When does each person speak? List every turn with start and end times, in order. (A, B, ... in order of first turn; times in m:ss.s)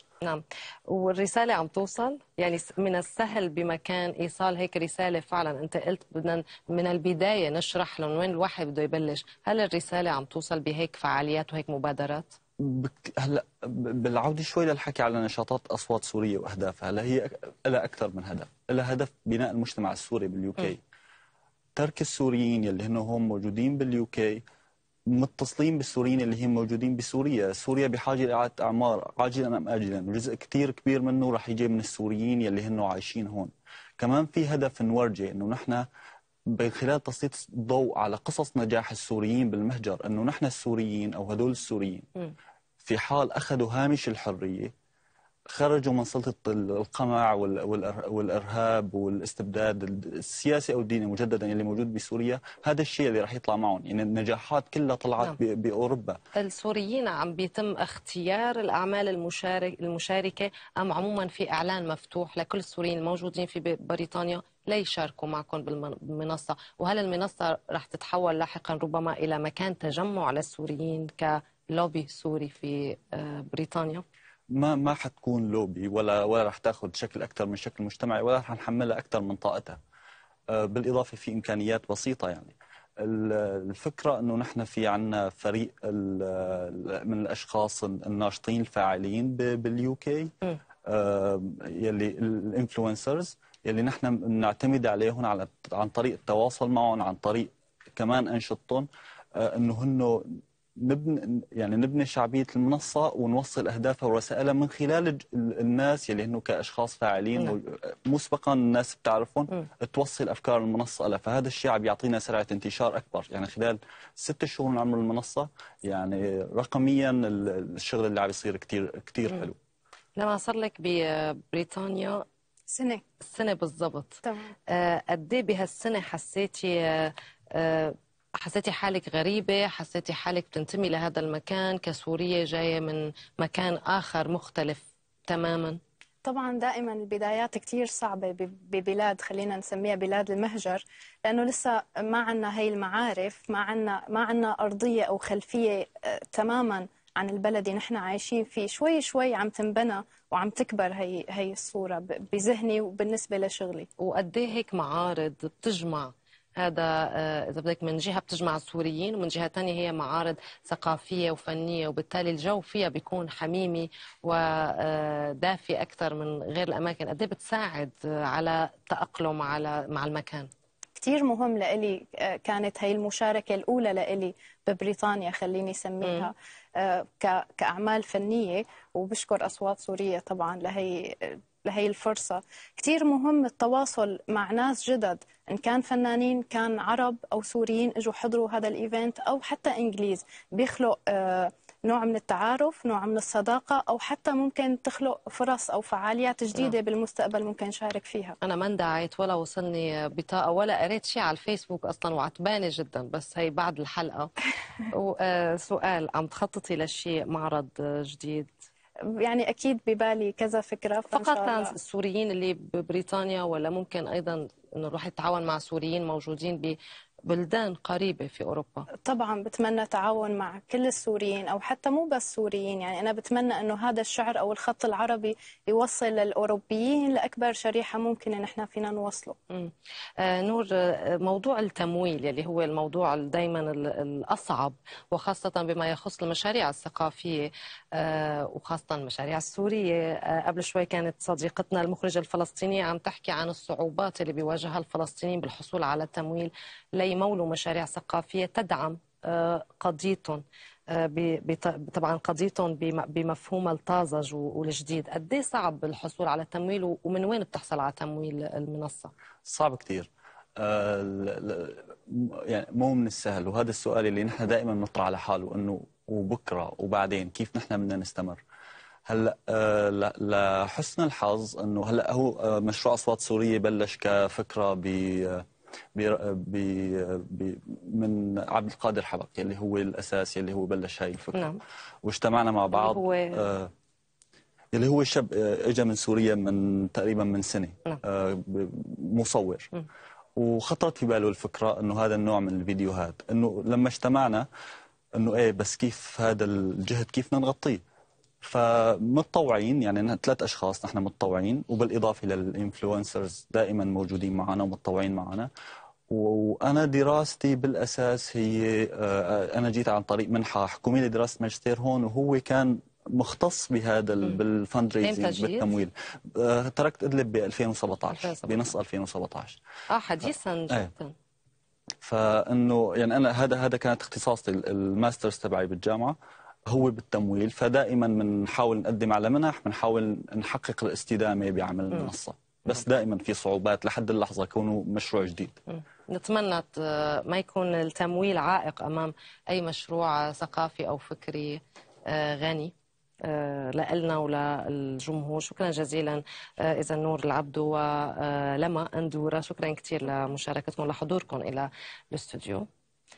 0:00.2-0:12.4 A
0:12.6-0:20.8 B
0:21.8-0:24.4 B
0:25.1-0:35.9 B
0:36.5-0:42.1 B
0:42.8-0:44.7 B
0:45.5-0:56.2 B
0:56.4-1:14.0 A
1:14.5-1:19.8 B
1:20.5-1:30.3 B
1:30.9-1:59.6 B
2:00.2-2:02.2 A
2:02.7-2:03.0 C
2:03.2-2:15.8 A
2:04.2-2:04.5 C
2:16.2-2:33.9 C
2:34.0-2:50.5 A
2:51.0-3:18.4 C
2:56.0-2:56.3 A
3:18.4-3:24.3 A
3:24.9-3:28.6 A
3:29.2-3:31.7 C
3:31.1-3:38.9 A
3:39.1-3:49.4 C
3:49.5-4:19.1 A
4:19.5-4:28.4 B
4:29.1-4:41.5 B
4:41.4-4:41.6 A
4:42.0-4:43.7 B
4:42.7-4:43.4 A
4:44.7-4:49.7 B
4:50.4-4:54.5 B
4:55.2-4:57.8 B
4:58.4-5:05.5 B
5:06.1-5:19.6 B
5:15.0-5:15.7 A
5:18.2-5:18.7 A
5:19.9-5:21.2 A
5:22.0-5:26.2 B
5:26.7-5:35.6 B
5:35.7-5:42.7 A
5:43.2-5:52.7 A